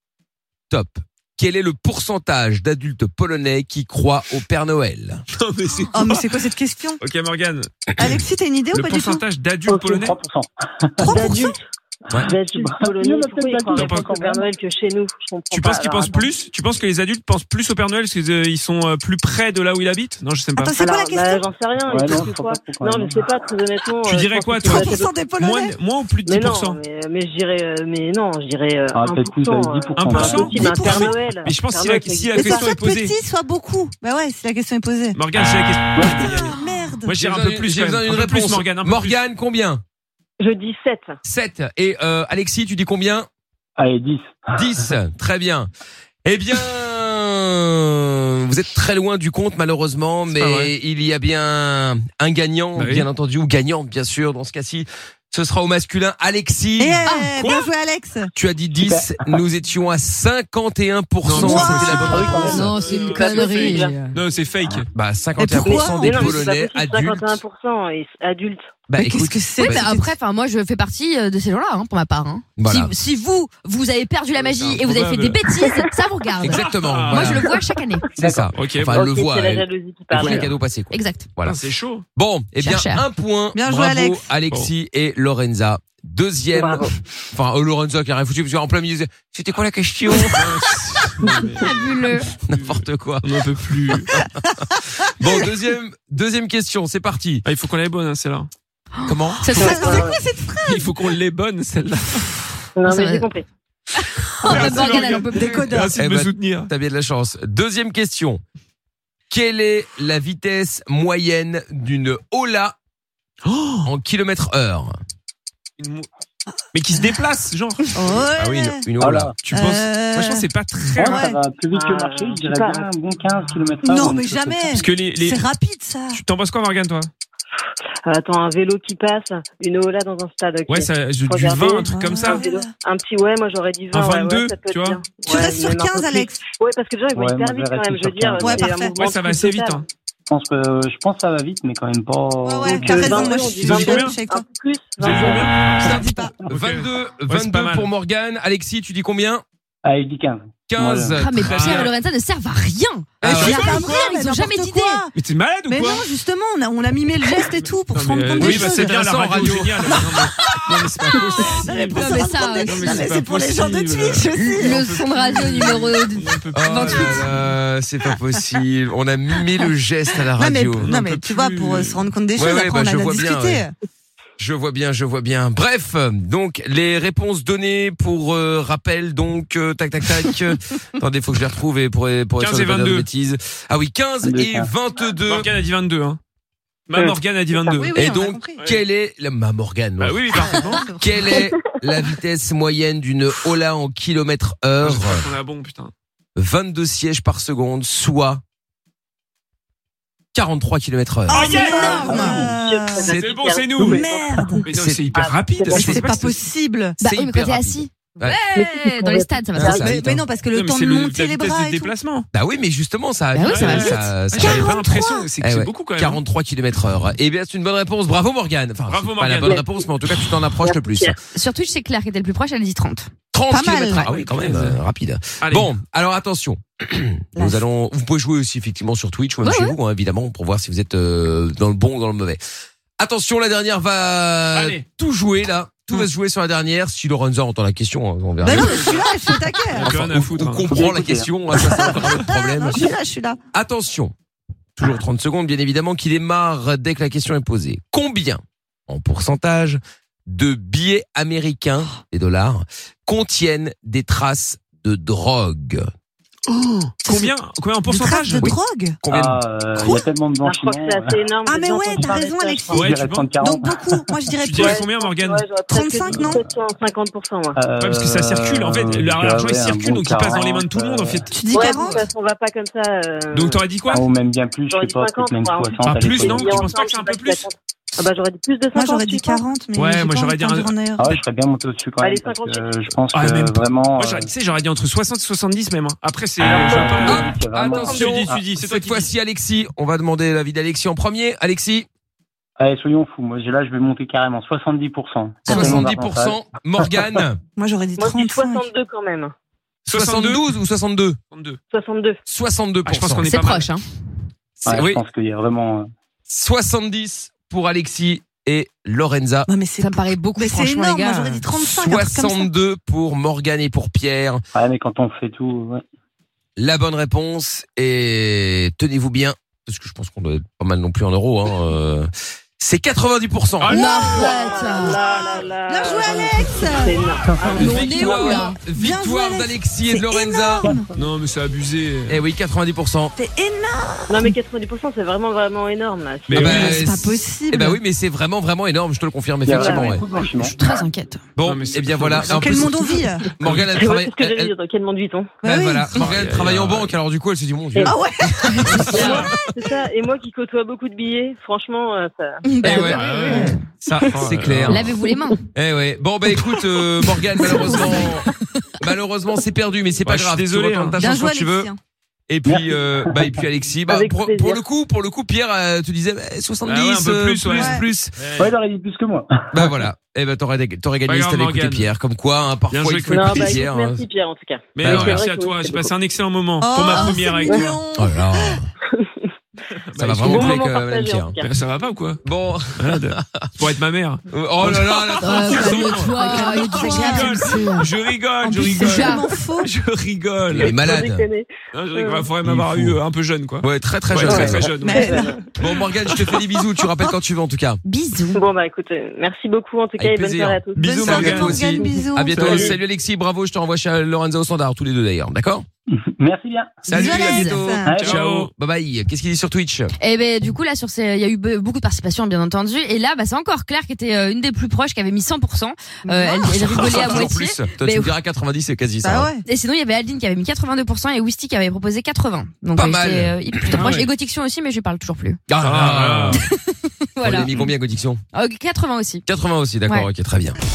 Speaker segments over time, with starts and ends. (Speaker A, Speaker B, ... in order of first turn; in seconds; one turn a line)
Speaker A: 0.7-5.2
Speaker B: 5.3-7.7
Speaker C: 5.9-7.0
Speaker C: 8.0-9.2
Speaker B: 8.7-10.1
Speaker D: 9.7-10.1
Speaker E: 10.0-11.4
Speaker C: 11.0-11.5
Speaker D: 11.1-11.6
Speaker E: 12.2-14.4
Speaker D: 12.2-16.3
Speaker B: 13.8-14.1
Speaker B: 15.5-20.7
Speaker C: 20.6-21.4
Speaker D: 20.8-25.1
Speaker E: 21.9-23.4
Speaker B: 24.0-26.8
Speaker C: 24.6-25.8
Speaker D: 26.3-32.7
Speaker E: 28.9-31.1
Speaker B: 30.0-33.2
Speaker C: 32.3-35.2
Speaker B: 35.1-39.2
Speaker E: 36.0-36.3
Speaker C: 36.0-37.1
Speaker A: 37.1-39.8
Speaker D: 40.4-41.2
Speaker A: 41.2-43.3
Speaker E: 43.8-44.7
Speaker A: 44.6-45.7
Speaker A: 46.2-57.1
Speaker B: 50.3-50.7
Speaker B: 52.8-53.1
Speaker C: 56.8-58.3
Speaker B: 57.1-57.7
Speaker A: 58.4-62.7
Speaker E: 58.8-59.4
Speaker B: 61.2-64.9
Speaker C: 61.3-62.4
Speaker E: 62.0-62.7
Speaker F: 62.4-64.2
Speaker D: 63.0-64.0
Speaker A: 64.9-67.4
Speaker C: 65.4-66.3
Speaker D: 65.6-68.8
Speaker A: 68.9-69.9
Speaker C: 69.0-70.1
Speaker F: 69.6-78.1
Speaker A: 72.6-72.9
Speaker B: 74.3-75.4
Speaker D: 75.5-75.9
Speaker A: 76.4-77.5
Speaker B: 76.5-77.4
Speaker E: 78.2-78.5
Speaker A: 78.2-81.6
Speaker B: 78.5-79.0
Speaker D: 78.8-80.5
Speaker F: 80.2-81.3
Speaker B: 81.4-82.0
Speaker A: 82.2-90.5
Speaker F: 82.6-83.0
Speaker C: 83.5-84.3
Speaker D: 86.5-87.0
Speaker B: 90.4-91.8
Speaker F: 91.6-92.3
Speaker A: 92.5-93.3
Speaker B: 92.5-94.2
Speaker A: 94.1-97.5
Speaker B: 97.5-98.5
Speaker F: 99.0-99.8
Speaker A: 99.1-100.0
Speaker D: 99.6-100.2
Speaker C: 99.6-101.0
Speaker B: 100.6-102.4
Speaker D: 102.8-103.5
Speaker F: 102.9-103.3
Speaker F: 104.0-105.7
Speaker B: 104.4-106.7
Speaker C: 104.5-105.9
Speaker A: 106.0-108.4
Speaker A: 109.3-112.8
Speaker B: 113.5-113.9
Speaker A: 113.8-114.9
Speaker B: 115.8-116.1
Speaker B: 116.7-117.9
Speaker C: 118.0-118.9
Speaker A: 118.2-119.3
Speaker E: 119.0-119.4
Speaker B: 119.4-121.3
Speaker C: 119.5-120.4
Speaker E: 121.0-124.9
Speaker C: 121.0-121.4
Speaker D: 121.7-122.9
Speaker C: 123.8-126.2
Speaker B: 124.7-125.5
Speaker B: 126.1-127.1
Speaker D: 128.1-139.8
Speaker B: 130.7-132.4
Speaker C: 131.9-132.7
Speaker B: 133.9-135.0
Speaker C: 135.2-136.4
Speaker E: 137.1-138.6
Speaker C: 138.4-138.9
Speaker B: 139.0-139.9
Speaker E: 140.3-143.5
Speaker C: 142.4-144.4
Speaker D: 142.7-145.5
Speaker B: 143.6-144.2
Speaker B: 145.0-145.6
Speaker E: 145.2-145.9
Speaker A: 145.8-149.4
Speaker C: 145.8-146.3
Speaker B: 146.5-147.9
Speaker E: 149.8-151.2
Speaker A: 150.7-151.9
Speaker F: 151.1-155.0
Speaker B: 151.4-151.9
Speaker A: 153.2-153.9
Speaker C: 153.3-155.1
Speaker B: 153.3-153.9
Speaker B: 155.1-156.1
Speaker C: 155.7-158.9
Speaker B: 157.5-167.5
Speaker A: 158.4-161.7
Speaker C: 160.2-160.6
Speaker C: 161.5-164.8
Speaker F: 161.9-163.0
Speaker F: 164.4-167.2
Speaker A: 166.5-170.9
Speaker C: 170.4-173.7
Speaker B: 170.8-172.1
Speaker A: 172.3-173.7
Speaker A: 174.4-185.5
Speaker B: 182.4-183.1
Speaker E: 184.2-184.7
Speaker B: 185.3-186.2
Speaker B: 186.9-187.9
Speaker C: 187.6-188.6
Speaker A: 187.9-195.3
Speaker B: 190.0-190.9
Speaker C: 190.4-191.4
Speaker B: 194.8-195.9
Speaker A: 196.4-198.4
Speaker A: 200.3-202.4
Speaker C: 201.3-203.2
Speaker B: 201.3-202.5
Speaker D: 201.5-204.5
Speaker A: 203.0-203.3
Speaker B: 203.1-204.1
Speaker C: 203.8-204.7
Speaker B: 204.6-206.4
Speaker A: 204.7-205.0
Speaker D: 205.1-205.9
Speaker C: 205.8-207.0
Speaker F: 207.0-210.2
Speaker A: 207.0-208.4
Speaker D: 208.6-209.9
Speaker A: 209.6-210.2
Speaker C: 209.8-211.9
Speaker B: 210.5-212.3
Speaker A: 212.3-214.8
Speaker F: 213.3-214.1
Speaker B: 213.4-216.2
Speaker C: 214.3-215.3
Speaker A: 215.4-221.2
Speaker B: 218.9-219.5
Speaker D: 219.4-219.8
Speaker D: 220.5-221.2
Speaker F: 221.3-223.1
Speaker A: 223.3-232.4
Speaker C: 223.5-224.2
Speaker B: 223.9-224.8
Speaker B: 225.4-225.7
Speaker C: 227.4-227.6
Speaker F: 229.4-229.8
Speaker A: 233.0-239.1
Speaker B: 234.5-234.8
Speaker C: 238.4-239.9
Speaker B: 238.6-239.0
Speaker B: 239.7-240.8
Speaker A: 239.8-242.9
Speaker E: 240.7-242.0
Speaker C: 241.6-243.4
Speaker A: 243.5-244.1
Speaker A: 244.8-255.9
Speaker B: 256.5-258.5
Speaker C: 257.1-257.3
Speaker C: 257.9-259.0
Speaker A: 258.4-260.0
Speaker E: 259.1-261.2
Speaker D: 260.4-262.8
Speaker C: 261.5-264.7
Speaker B: 262.7-263.5
Speaker E: 262.7-264.2
Speaker B: 264.4-265.5
Speaker D: 264.6-267.6
Speaker C: 265.7-266.4
Speaker B: 266.1-266.4
Speaker E: 267.6-271.2
Speaker B: 267.8-271.3
Speaker C: 271.3-272.1
Speaker D: 271.5-273.9
Speaker B: 273.3-274.0
Speaker E: 273.9-276.7
Speaker D: 274.7-279.5
Speaker B: 275.9-277.5
Speaker C: 278.8-281.1
Speaker B: 279.8-281.2
Speaker E: 281.0-284.3
Speaker D: 282.0-282.7
Speaker B: 283.1-289.1
Speaker E: 286.4-288.4
Speaker D: 286.7-287.0
Speaker A: 287.0-291.9
Speaker D: 287.7-288.1
Speaker E: 292.6-296.4
Speaker A: 295.5-297.4
Speaker C: 295.5-295.9
Speaker C: 297.6-298.6
Speaker D: 298.0-299.3
Speaker B: 299.9-300.4
Speaker A: 299.9-301.2
Speaker B: 301.3-301.6
Speaker D: 301.7-302.2
Speaker A: 302.3-303.3
Speaker B: 302.9-303.7
Speaker F: 303.2-303.8
Speaker A: 304.6-305.0
Speaker E: 304.6-305.9
Speaker A: 306.3-309.5
Speaker C: 309.5-312.5
Speaker F: 309.8-311.5
Speaker A: 311.5-314.4
Speaker E: 314.5-315.8
Speaker A: 316.6-323.8
Speaker B: 323.6-324.4
Speaker F: 323.7-325.0
Speaker C: 323.7-327.3
Speaker D: 324.2-328.4
Speaker E: 327.3-327.7
Speaker F: 327.5-328.6
Speaker A: 327.6-330.8
Speaker C: 328.3-330.9
Speaker E: 330.6-331.0
Speaker B: 330.9-332.2
Speaker A: 332.1-333.1
Speaker C: 333.2-334.4
Speaker D: 334.1-336.8
Speaker B: 336.3-336.8
Speaker A: 336.3-340.0
Speaker C: 336.3-337.8
Speaker E: 339.5-340.6
Speaker D: 339.6-340.0
Speaker C: 340.4-341.2
Speaker A: 341.4-344.5
Speaker B: 341.4-342.7
Speaker C: 342.3-343.3
Speaker D: 343.3-345.3
Speaker B: 343.4-343.7
Speaker C: 345.4-345.9
Speaker A: 345.4-349.2
Speaker B: 345.9-346.9
Speaker C: 347.9-349.6
Speaker F: 348.7-349.2
Speaker B: 348.7-349.3
Speaker D: 348.9-353.0
Speaker F: 352.4-353.6
Speaker A: 352.6-354.9
Speaker B: 352.9-354.9
Speaker C: 353.1-353.6
Speaker F: 354.7-355.4
Speaker D: 355.1-355.4
Speaker A: 355.6-361.7
Speaker B: 360.0-361.0
Speaker C: 361.0-361.8
Speaker A: 362.3-368.1
Speaker E: 362.5-363.4
Speaker D: 363.9-364.6
Speaker B: 366.7-368.5
Speaker C: 367.5-367.9
Speaker E: 368.4-369.7
Speaker A: 369.5-374.0
Speaker B: 371.1-371.9
Speaker B: 372.7-373.6
Speaker D: 373.1-375.9
Speaker B: 374.8-377.8
Speaker A: 374.8-375.2
Speaker C: 376.6-378.6
Speaker A: 377.9-378.7
Speaker D: 378.9-379.3
Speaker B: 379.9-380.6
Speaker A: 380.0-381.4
Speaker D: 380.2-381.5
Speaker B: 381.4-382.2
Speaker A: 382.2-383.5
Speaker B: 382.8-390.8
Speaker A: 384.3-386.1
Speaker F: 385.2-387.9
Speaker C: 386.1-387.4
Speaker F: 388.5-389.3
Speaker C: 388.5-389.7
Speaker A: 390.5-391.3
Speaker D: 390.6-392.3
Speaker B: 391.7-396.4
Speaker A: 392.4-393.0
Speaker A: 393.6-394.7
Speaker D: 394.3-394.7
Speaker C: 394.8-395.3
Speaker E: 394.9-395.4
Speaker A: 395.6-397.8
Speaker F: 397.9-398.4
Speaker D: 398.3-402.8
Speaker A: 400.0-405.7
Speaker C: 400.8-402.4
Speaker B: 400.9-401.6
Speaker B: 402.3-402.8
Speaker E: 405.9-406.8
Speaker A: 406.9-409.9
Speaker C: 406.9-408.0
Speaker F: 407.0-407.6
Speaker B: 407.3-408.5
Speaker E: 407.9-408.2
Speaker F: 410.0-418.1
Speaker C: 416.1-417.2
Speaker A: 416.5-419.3
Speaker C: 419.0-419.4
Speaker F: 419.4-425.4
Speaker A: 422.8-423.9
Speaker B: 423.7-424.1
Speaker A: 425.5-426.4
Speaker B: 425.6-426.4
Speaker F: 426.4-427.5
Speaker A: 427.2-428.2
Speaker F: 428.3-429.2
Speaker A: 429.3-430.6